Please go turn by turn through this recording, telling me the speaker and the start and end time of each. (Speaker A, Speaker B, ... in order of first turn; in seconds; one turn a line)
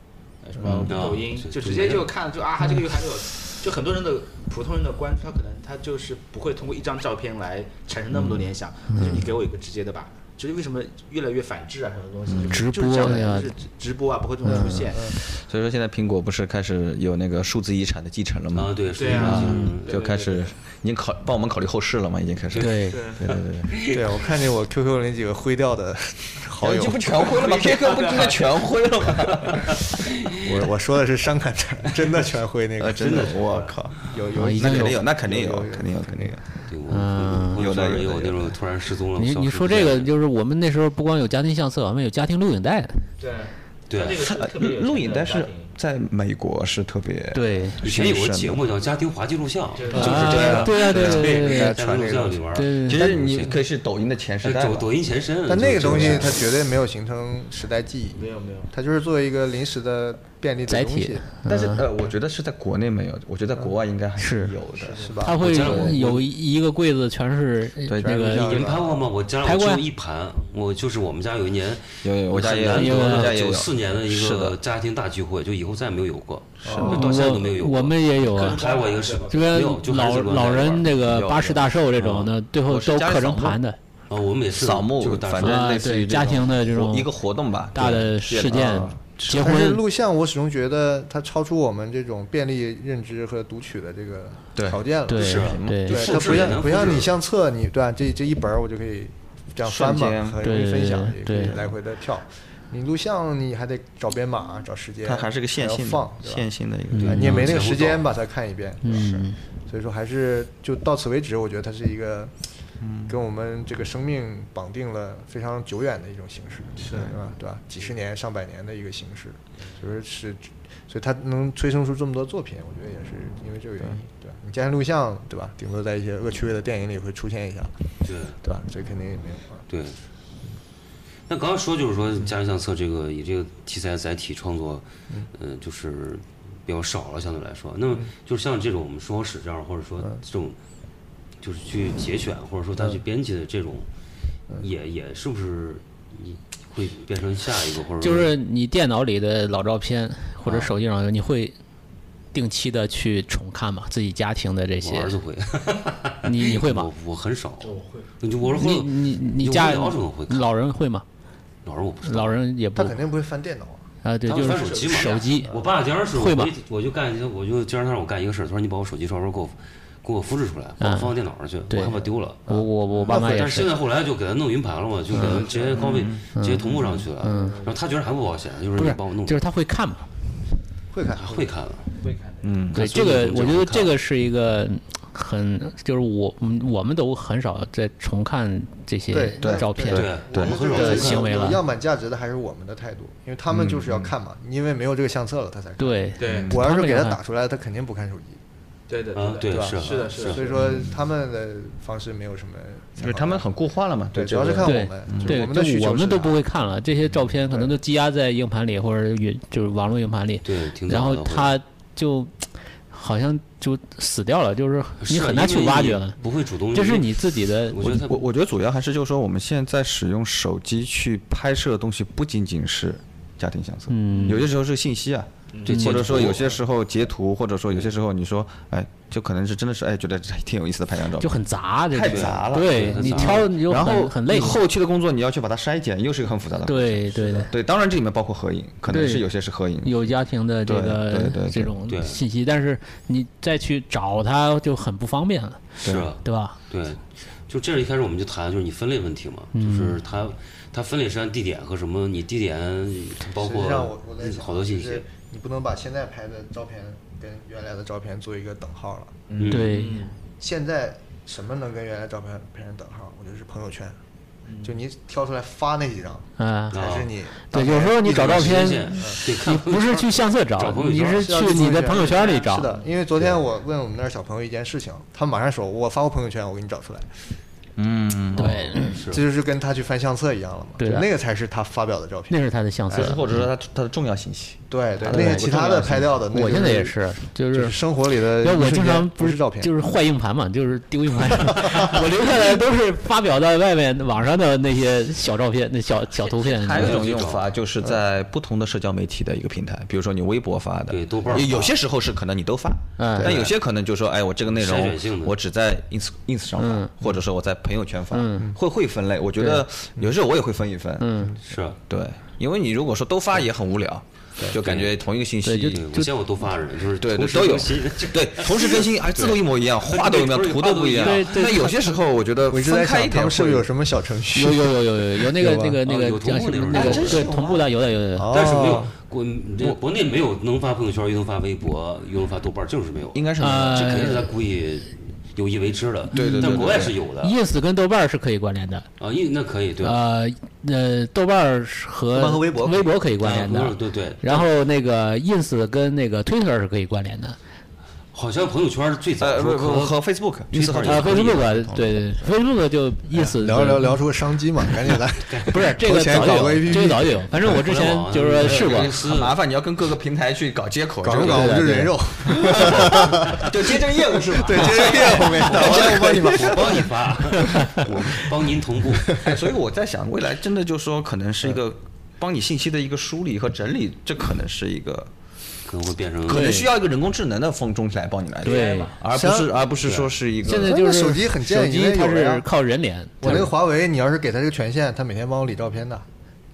Speaker A: 0.4-15.2
Speaker B: 0.6-0.9
Speaker C: 0.9-2.1
Speaker D: 8.9-9.3
Speaker B: 12.3-12.7
Speaker D: 12.5-13.5
Speaker D: 14.4-14.9
Speaker E: 14.4-15.2
Speaker B: 15.2-23.8
Speaker C: 18.5-19.9
Speaker A: 18.9-20.5
Speaker D: 19.2-19.8
Speaker C: 22.5-24.1
Speaker D: 22.6-23.0
Speaker A: 22.9-23.3
Speaker E: 23.9-27.2
Speaker B: 26.6-29.9
Speaker A: 27.2-28.6
Speaker E: 30.4-33.5
Speaker B: 32.8-36.4
Speaker C: 33.0-34.1
Speaker E: 34.0-36.4
Speaker D: 34.3-35.0
Speaker C: 36.7-40.1
Speaker D: 36.9-37.6
Speaker B: 37.5-38.5
Speaker D: 39.2-43.1
Speaker A: 43.2-45.7
Speaker C: 43.9-44.2
Speaker B: 44.1-48.6
Speaker D: 47.3-47.9
Speaker C: 47.8-53.6
Speaker A: 49.8-50.6
Speaker B: 49.9-51.7
Speaker E: 49.9-52.4
Speaker D: 50.0-51.8
Speaker D: 52.5-53.1
Speaker B: 52.8-54.9
Speaker C: 54.4-56.4
Speaker E: 55.5-61.3
Speaker B: 55.8-56.2
Speaker A: 58.1-58.7
Speaker D: 60.7-61.9
Speaker B: 61.5-66.2
Speaker D: 64.2-64.6
Speaker A: 64.8-65.2
Speaker E: 65.0-65.4
Speaker D: 65.2-68.6
Speaker C: 65.4-66.2
Speaker B: 67.9-68.5
Speaker E: 68.0-69.1
Speaker C: 68.3-80.8
Speaker D: 69.4-69.8
Speaker B: 72.0-74.6
Speaker D: 72.7-73.3
Speaker E: 76.7-77.0
Speaker B: 76.7-77.5
Speaker D: 76.7-78.6
Speaker A: 78.2-79.6
Speaker D: 79.3-83.8
Speaker B: 80.9-83.6
Speaker C: 84.1-85.7
Speaker B: 84.5-89.6
Speaker D: 85.3-87.1
Speaker D: 87.7-89.8
Speaker E: 88.5-106.5
Speaker B: 94.5-96.7
Speaker D: 95.1-96.1
Speaker C: 95.2-97.1
Speaker B: 99.6-100.4
Speaker D: 100.4-101.6
Speaker B: 105.0-107.4
Speaker D: 106.9-107.5
Speaker C: 107.0-108.0
Speaker E: 107.1-112.3
Speaker D: 108.8-109.4
Speaker B: 112.8-113.2
Speaker E: 113.1-127.8
Speaker A: 116.8-117.2
Speaker C: 128.0-128.4
Speaker E: 128.4-129.6
Speaker C: 129.7-130.0
Speaker C: 131.3-140.6
Speaker C: 141.4-143.9
Speaker C: 144.6-148.3
Speaker D: 148.0-151.6
Speaker C: 150.4-150.7
Speaker D: 152.3-155.1
Speaker C: 154.8-160.5
Speaker D: 156.2-156.9
Speaker A: 157.6-158.1
Speaker D: 158.4-161.1
Speaker C: 161.7-162.4
Speaker D: 162.1-163.0
Speaker E: 162.8-163.8
Speaker D: 164.0-165.5
Speaker C: 164.3-172.4
Speaker A: 164.4-165.6
Speaker D: 166.1-166.5
Speaker D: 170.8-171.2
Speaker D: 171.7-173.7
Speaker C: 173.1-179.4
Speaker B: 175.2-177.1
Speaker A: 175.2-175.8
Speaker D: 176.3-177.7
Speaker A: 177.2-177.8
Speaker D: 178.8-180.1
Speaker E: 180.9-181.5
Speaker C: 181.2-182.0
Speaker A: 182.0-182.6
Speaker B: 182.4-183.0
Speaker C: 182.7-184.0
Speaker D: 182.7-190.1
Speaker E: 189.1-198.4
Speaker B: 189.4-190.6
Speaker C: 189.9-191.4
Speaker D: 190.7-191.6
Speaker B: 193.5-194.1
Speaker D: 195.8-197.2
Speaker A: 196.2-196.6
Speaker B: 196.3-196.6
Speaker A: 198.9-200.6
Speaker C: 199.1-200.4
Speaker E: 199.5-203.5
Speaker B: 200.6-200.9
Speaker B: 203.0-205.4
Speaker E: 204.1-206.4
Speaker D: 204.6-216.2
Speaker C: 210.4-211.6
Speaker C: 215.0-218.2
Speaker D: 216.7-218.0
Speaker B: 217.9-231.4
Speaker D: 223.9-224.5
Speaker A: 224.1-224.5
Speaker A: 225.5-226.5
Speaker C: 225.7-226.5
Speaker D: 231.2-234.6
Speaker B: 231.9-240.1
Speaker C: 232.1-233.6
Speaker D: 236.7-237.5
Speaker D: 238.9-239.3
Speaker D: 239.8-245.7
Speaker B: 240.6-241.8
Speaker C: 241.9-242.2
Speaker B: 245.8-246.1
Speaker C: 245.8-255.1
Speaker D: 246.2-246.6
Speaker D: 249.5-250.0
Speaker E: 253.4-259.2
Speaker B: 259.3-259.6
Speaker C: 259.4-259.8
Speaker D: 259.5-260.0
Speaker A: 259.6-260.2
Speaker E: 260.4-264.0
Speaker A: 264.5-264.8
Speaker E: 264.6-269.2
Speaker D: 266.4-266.8
Speaker C: 266.7-267.1
Speaker D: 267.5-272.7
Speaker C: 268.0-271.3
Speaker E: 271.1-277.1
Speaker A: 272.6-273.3
Speaker B: 277.8-278.8
Speaker D: 278.4-279.0
Speaker C: 278.8-279.2
Speaker E: 278.9-282.4
Speaker D: 280.8-281.1
Speaker D: 282.3-283.4
Speaker B: 282.9-286.1
Speaker E: 284.7-287.0
Speaker D: 286.3-297.1
Speaker E: 287.5-289.7
Speaker E: 291.6-291.9
Speaker B: 296.2-311.2
Speaker C: 296.8-297.5
Speaker C: 300.9-301.8
Speaker D: 303.0-303.3
Speaker C: 303.2-303.5
Speaker C: 304.5-305.4
Speaker D: 306.6-306.9
Speaker D: 308.1-308.5
Speaker D: 309.4-309.6
Speaker D: 311.0-311.4
Speaker C: 311.5-311.8
Speaker B: 311.9-315.9
Speaker C: 314.6-314.9
Speaker D: 315.4-316.1
Speaker C: 315.7-321.7
Speaker B: 317.0-323.7
Speaker D: 321.0-321.8
Speaker E: 322.5-325.8
Speaker D: 324.4-328.4
Speaker C: 325.9-327.3
Speaker B: 326.7-327.7
Speaker E: 328.2-328.9
Speaker C: 328.3-337.4
Speaker B: 333.1-334.3
Speaker D: 333.4-334.3
Speaker B: 336.1-337.0
Speaker D: 336.1-338.9
Speaker C: 339.0-340.0
Speaker D: 339.8-347.4
Speaker B: 342.1-342.9
Speaker C: 343.2-344.5
Speaker C: 348.1-350.0
Speaker B: 349.2-352.1
Speaker C: 350.5-351.5
Speaker D: 350.8-354.0
Speaker E: 353.1-357.5
Speaker C: 355.3-355.6
Speaker D: 355.5-358.9
Speaker C: 357.4-359.4
Speaker B: 358.4-366.9
Speaker E: 361.0-366.9
Speaker D: 361.2-362.0
Speaker C: 365.5-369.2
Speaker D: 367.4-367.7
Speaker B: 369.1-375.1
Speaker C: 375.7-376.5
Speaker B: 376.3-380.8
Speaker D: 376.3-376.7
Speaker A: 378.4-379.0
Speaker D: 378.4-378.9
Speaker E: 379.1-379.6
Speaker C: 379.8-380.1
Speaker D: 380.4-383.5
Speaker E: 380.5-382.5
Speaker E: 383.2-386.1